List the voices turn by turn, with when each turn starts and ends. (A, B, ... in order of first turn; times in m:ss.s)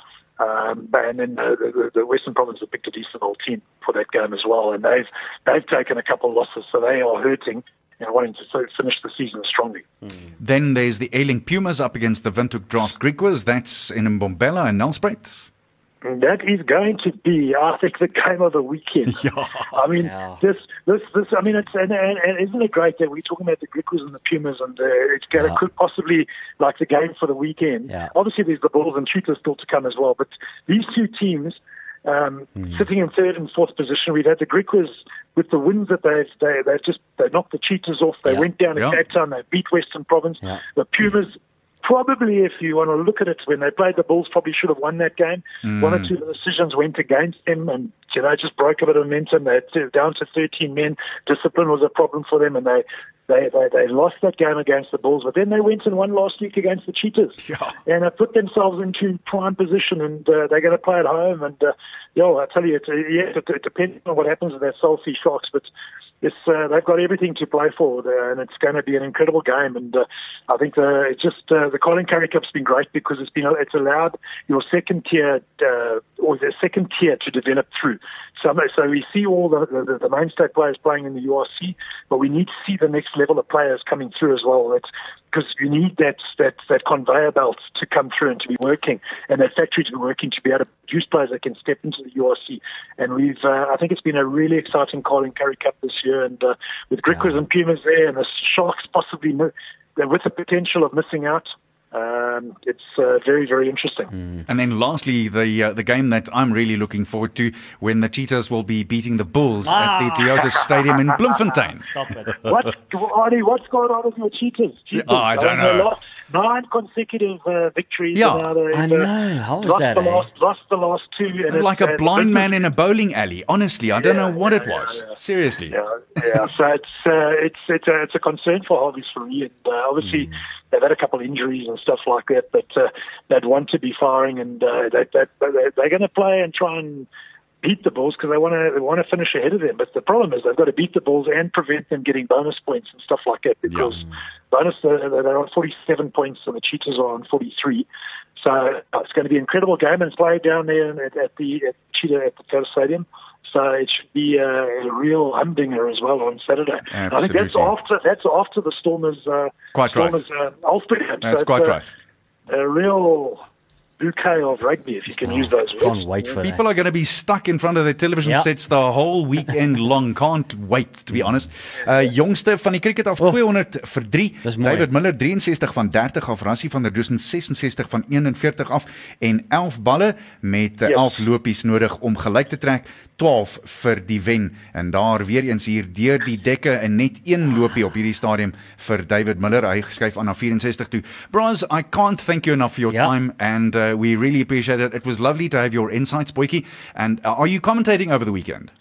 0:00.4-0:09.9 A
0:10.4-0:15.5 B
0:16.0-1:05.7 A
0:19.2-0:19.7 B
0:20.0-0:20.4 C
0:45.7-0:46.0 B
1:06.2-1:44.1 A
1:44.5-1:51.9 B
1:49.6-1:50.7 C
1:51.9-1:52.3 C
1:52.4-2:02.5 A
1:54.9-1:55.9 B
1:58.1-1:58.5 B
1:58.7-2:00.3 C
2:01.5-2:05.8 B
2:04.0-2:05.1 A
2:05.7-2:17.1 A
2:17.6-2:41.8 A
2:36.9-2:37.7 B
2:39.7-2:40.2 B
2:41.2-2:41.9 B
2:42.5-2:43.4 A
2:44.0-2:46.0 A
2:45.2-2:46.6 C
2:46.4-3:18.7 B
2:54.4-2:54.9 C